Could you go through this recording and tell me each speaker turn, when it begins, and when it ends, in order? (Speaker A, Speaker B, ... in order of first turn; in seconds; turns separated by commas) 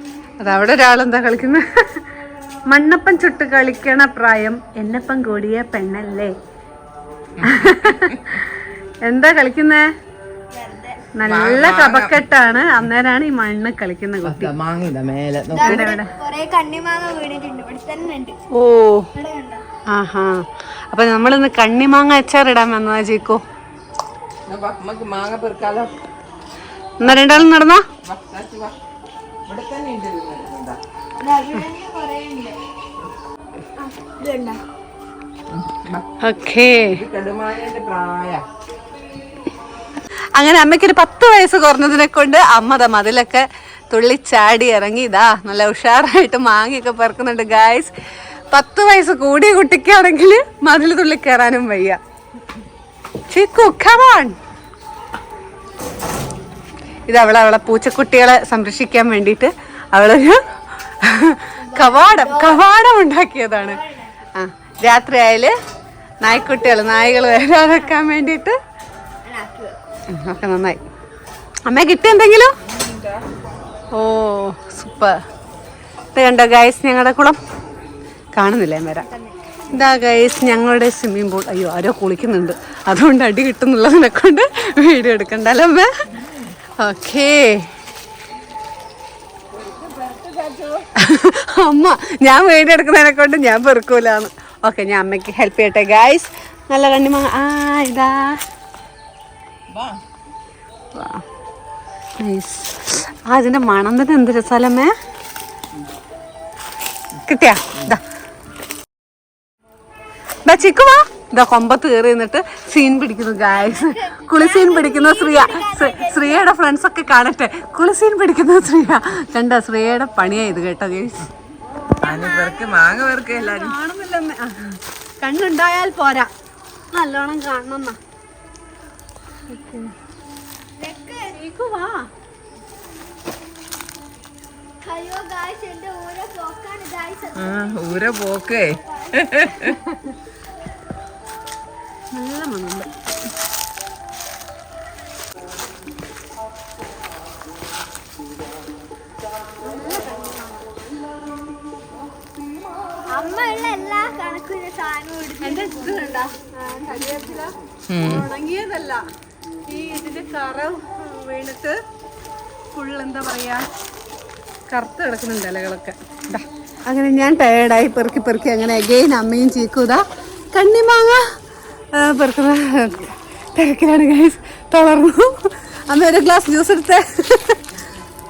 Speaker A: 0.4-2.0, Speaker A: 2.7-6.3, Speaker B: 7.4-8.3, Speaker A: 7.4-8.4, Speaker A: 9.0-9.9, Speaker C: 10.5-11.0, Speaker A: 11.2-14.5, Speaker B: 11.3-12.2, Speaker B: 14.2-15.9, Speaker C: 15.5-18.4, Speaker A: 15.7-16.1, Speaker A: 18.5-19.1, Speaker C: 19.1-19.6, Speaker A: 19.9-23.4, Speaker B: 24.5-25.9, Speaker A: 27.0-27.8, Speaker B: 27.0-27.5, Speaker B: 28.0-28.7, Speaker B: 29.5-30.8, Speaker C: 31.2-32.6, Speaker C: 33.8-34.6, Speaker B: 35.5-36.2, Speaker A: 36.2-37.0, Speaker B: 36.9-38.4, Speaker A: 40.4-47.9, Speaker A: 48.5-52.0, Speaker A: 53.3-54.4, Speaker A: 57.1-60.4, Speaker A: 61.0-63.8, Speaker C: 61.6-62.6, Speaker C: 63.6-64.1, Speaker A: 64.4-65.5, Speaker A: 66.2-68.6, Speaker C: 66.6-68.0, Speaker C: 69.2-69.8, Speaker A: 70.1-70.8, Speaker A: 71.7-72.6, Speaker B: 72.6-73.2, Speaker A: 73.9-75.2, Speaker A: 76.1-77.4, Speaker A: 78.3-79.1, Speaker C: 79.0-79.4, Speaker A: 79.7-85.9, Speaker A: 86.8-87.7, Speaker B: 89.5-90.9, Speaker A: 91.0-98.4, Speaker B: 99.7-100.0, Speaker A: 100.9-101.2, Speaker A: 102.2-104.9, Speaker A: 107.2-108.0, Speaker A: 110.5-121.3, Speaker C: 113.5-116.5, Speaker B: 122.0-123.7, Speaker C: 122.1-122.4, Speaker A: 122.3-126.3, Speaker A: 126.9-128.0, Speaker A: 129.5-129.9, Speaker C: 130.8-131.4, Speaker A: 131.3-132.1, Speaker C: 134.8-137.7, Speaker B: 137.3-139.8, Speaker C: 138.7-139.2, Speaker A: 142.1-142.9, Speaker A: 149.6-150.8, Speaker C: 153.1-156.2, Speaker A: 155.4-159.0, Speaker B: 157.9-158.3, Speaker A: 159.7-161.8, Speaker A: 162.7-163.7, Speaker A: 164.7-171.2, Speaker A: 171.9-177.6